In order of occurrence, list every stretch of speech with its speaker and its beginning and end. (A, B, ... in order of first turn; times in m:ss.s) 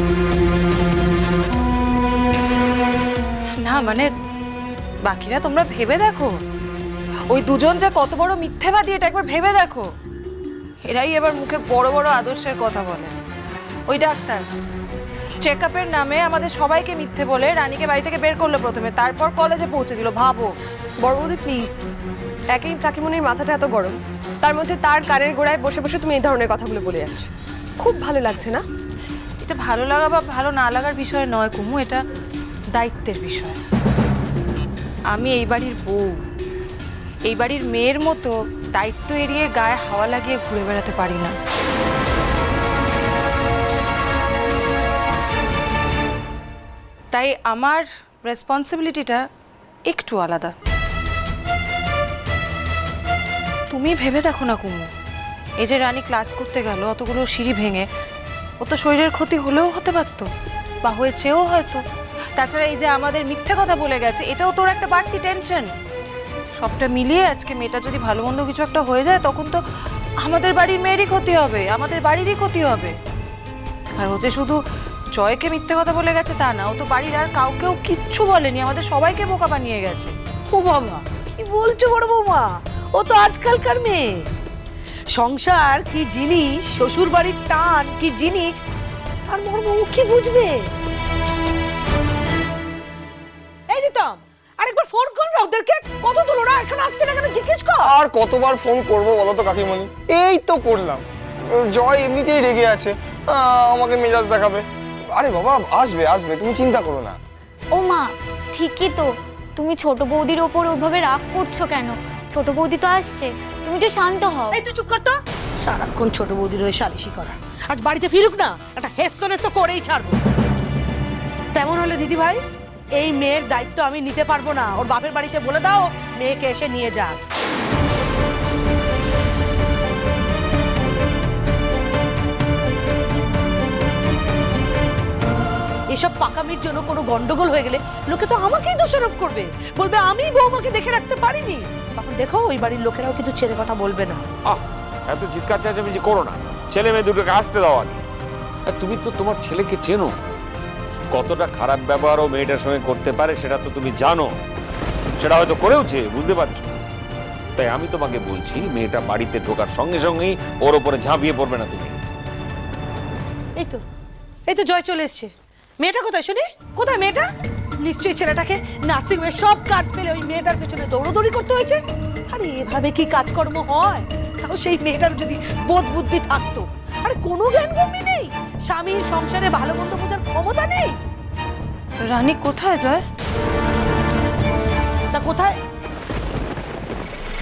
0:03.6-0:04.1 A
0:05.0-0:06.4 A
0:07.3-0:09.9 A
0:10.8-0:13.1 A
0:13.9-0:14.5 A
0:15.4-0:20.5 A
0:21.0-0:21.8 B
0:22.5-0:28.6 B
0:29.4-0:32.0 A
0:32.7-0:33.6 A
0:35.1-0:36.2 A
0:37.2-0:41.4 A
0:47.1-0:49.2 A
0:49.9-0:50.6 A
0:53.7-0:54.9 A
0:55.6-0:57.9 A
0:58.6-1:00.3 A
1:00.8-1:01.8 A
1:02.4-1:05.7 A
1:06.6-1:09.6 A
1:10.2-1:13.0 A
1:14.0-1:14.6 A
1:15.1-1:20.2 A
1:20.5-1:24.3 C
1:25.1-1:28.6 C
1:29.3-1:30.7 C
1:33.7-1:37.9 C
1:37.8-1:47.2 D
1:47.7-1:54.6 E
1:54.5-2:00.2 C
2:01.5-2:02.4 C
2:02.9-2:07.2 C
2:15.9-2:24.2 C
2:24.5-2:28.0 F
2:28.7-2:30.2 F
2:31.1-2:34.4 F
2:35.2-2:36.7 F
2:37.6-2:42.0 F
2:43.6-2:43.8 C
2:44.5-2:47.3 C
2:47.8-3:01.0 C
3:02.0-3:03.0 A
3:05.1-3:05.6 C